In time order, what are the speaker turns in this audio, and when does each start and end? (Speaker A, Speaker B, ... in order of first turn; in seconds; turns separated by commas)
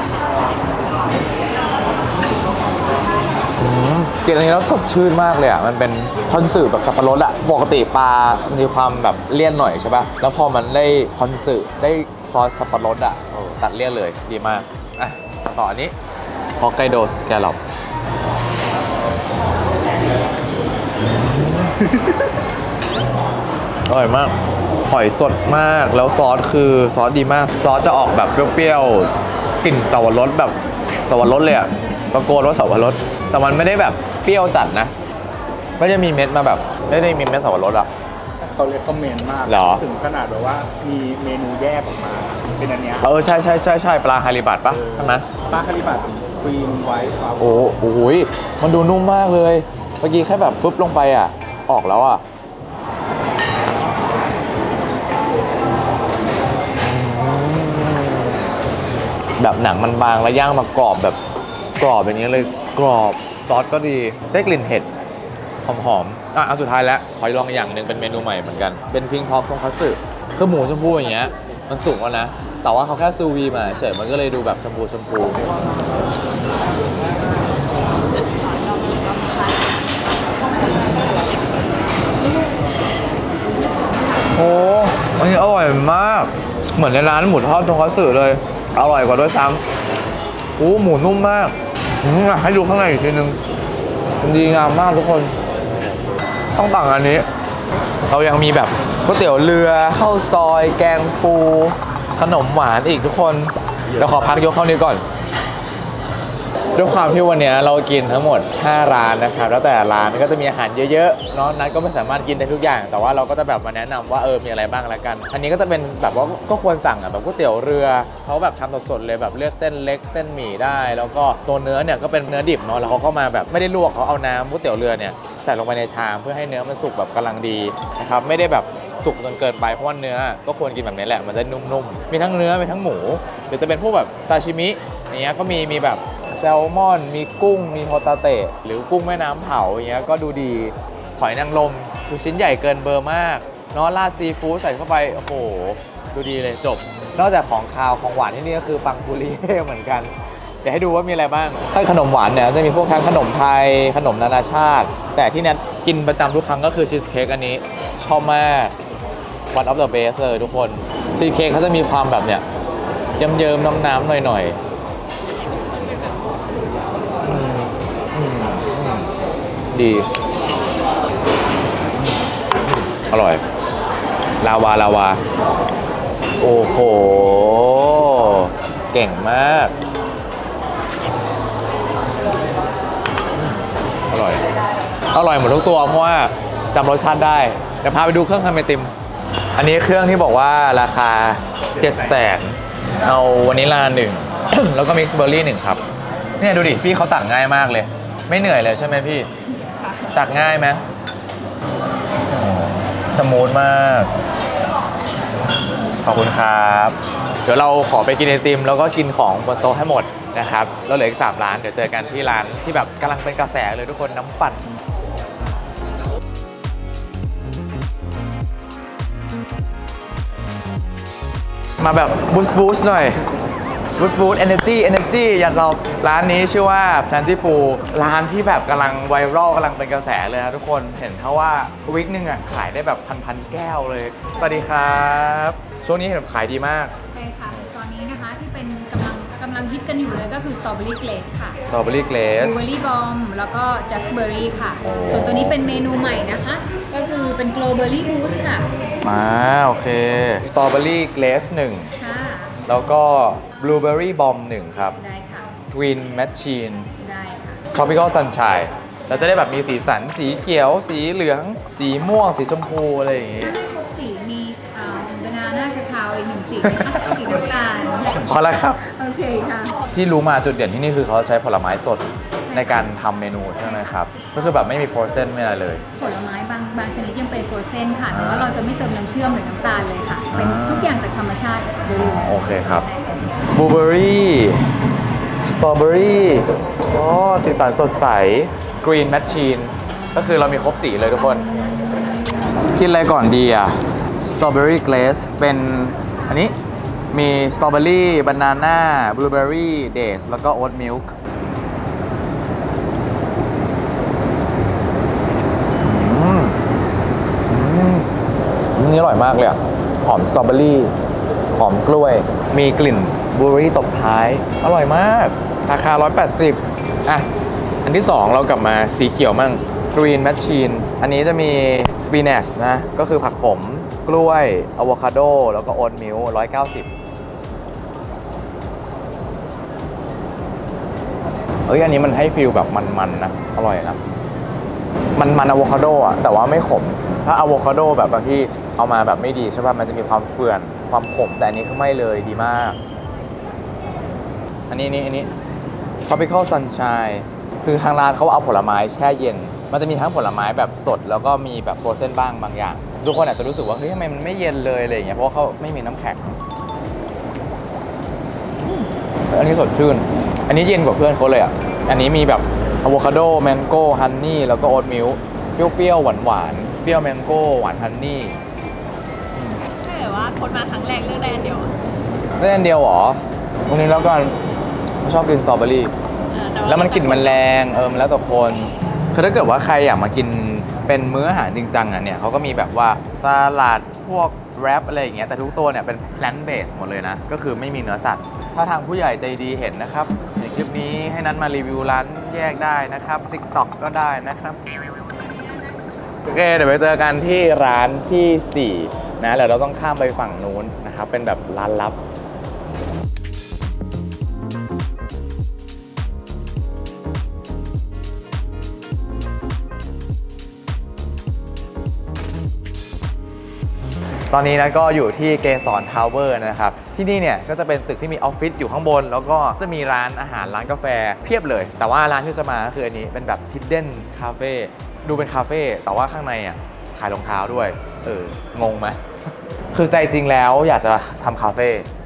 Speaker A: 3.6-15.9, Speaker A: 16.6-17.6, Speaker A: 21.1-22.2, Speaker A: 23.9-24.4, Speaker A: 24.9-29.1, Speaker A: 29.6-34.9, Speaker A: 35.8-37.9, Speaker B: 38.4-43.1, Speaker A: 39.5-39.8, Speaker A: 43.0-45.3, Speaker B: 44.7-47.7, Speaker A: 47.4-52.2, Speaker A: 56.8-58.5, Speaker A: 59.4-61.2, Speaker A: 61.8-64.9, Speaker A: 65.6-75.5, Speaker A: 84.3-89.6, Speaker A: 90.6-93.4, Speaker A: 94.2-95.4, Speaker A: 96.5-97.3, Speaker A: 98.1-105.0, Speaker A: 106.8-150.1, Speaker A: 150.6-158.7, Speaker A: 159.5-162.4, Speaker A: 163.2-164.6, Speaker A: 167.2-169.1, Speaker A: 169.7-170.1, Speaker A: 172.0-173.4, Speaker A: 174.4-175.2, Speaker A: 176.4-179.8, Speaker A: 183.3-184.5, Speaker A: 185.1-188.9, Speaker A: 189.6-195.8, Speaker A: 196.4-199.3, Speaker A: 200.1-200.8, Speaker A: 202.3-204.1, Speaker A: 206.0-214.7, Speaker A: 221.8-223.2, Speaker A: 224.0-236.9, Speaker C: 234.3-235.4, Speaker C: 237.1-241.6, Speaker A: 241.7-242.7, Speaker C: 242.4-248.7, Speaker A: 244.8-245.6, Speaker A: 249.0-251.9, Speaker C: 252.0-252.6, Speaker A: 252.7-255.0, Speaker C: 255.0-255.6, Speaker A: 255.7-256.9, Speaker C: 257.0-257.6, Speaker A: 257.7-263.6, Speaker C: 263.4-269.8, Speaker A: 266.6-267.4, Speaker A: 268.2-268.8, Speaker A: 269.9-275.8, Speaker C: 272.4-272.9, Speaker C: 273.6-274.0, Speaker C: 276.0-283.1, Speaker A: 278.1-278.6, Speaker A: 280.3-281.0, Speaker A: 281.9-282.9, Speaker A: 283.5-284.7, Speaker A: 285.4-291.4, Speaker A: 292.7-296.6, Speaker A: 297.1-301.1, Speaker A: 305.8-306.6, Speaker A: 307.5-308.1, Speaker A: 308.8-310.9, Speaker A: 311.5-317.3, Speaker A: 317.9-326.9, Speaker A: 331.7-334.0, Speaker A: 335.2-342.8, Speaker A: 344.7-345.3, Speaker A: 346.1-356.4, Speaker A: 358.6-368.4, Speaker A: 369.4-369.6, Speaker D: 369.8-371.7, Speaker A: 372.4-374.4, Speaker A: 375.0-375.9, Speaker D: 376.3-377.4, Speaker A: 376.6-394.6, Speaker A: 396.3-402.0, Speaker A: 414.3-429.0, Speaker A: 429.7-431.9